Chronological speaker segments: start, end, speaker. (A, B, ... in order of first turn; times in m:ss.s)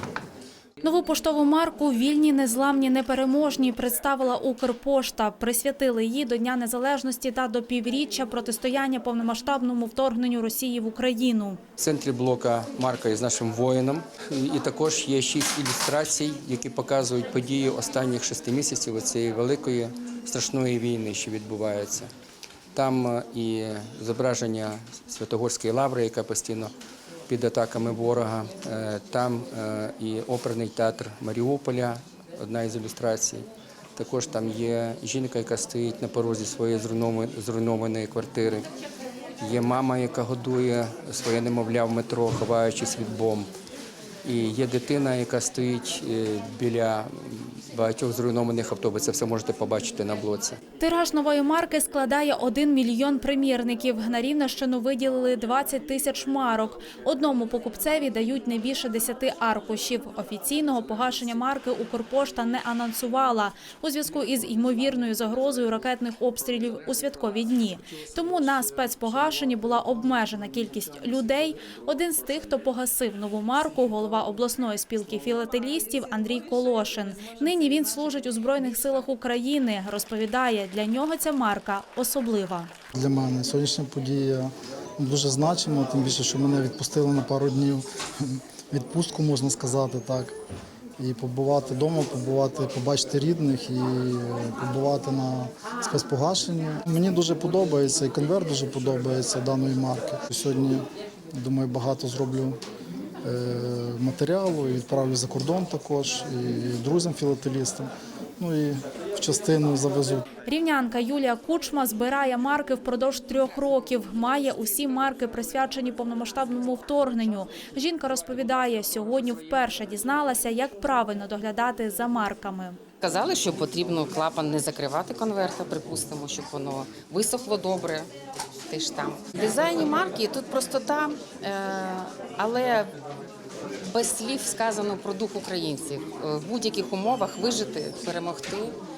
0:00.8-0:11.6 A
0:11.8-0:22.1 B
0:22.7-0:26.7 B
0:27.3-0:33.4 B
0:34.0-0:38.7 B
0:39.4-0:43.5 B
0:44.2-0:50.6 B
0:50.8-1:22.7 A
1:22.9-1:30.3 C
1:31.0-1:42.6 C
1:43.2-1:50.2 C
1:50.4-2:02.8 A
2:03.0-2:08.1 D
2:08.7-2:12.9 D
2:13.9-2:18.8 D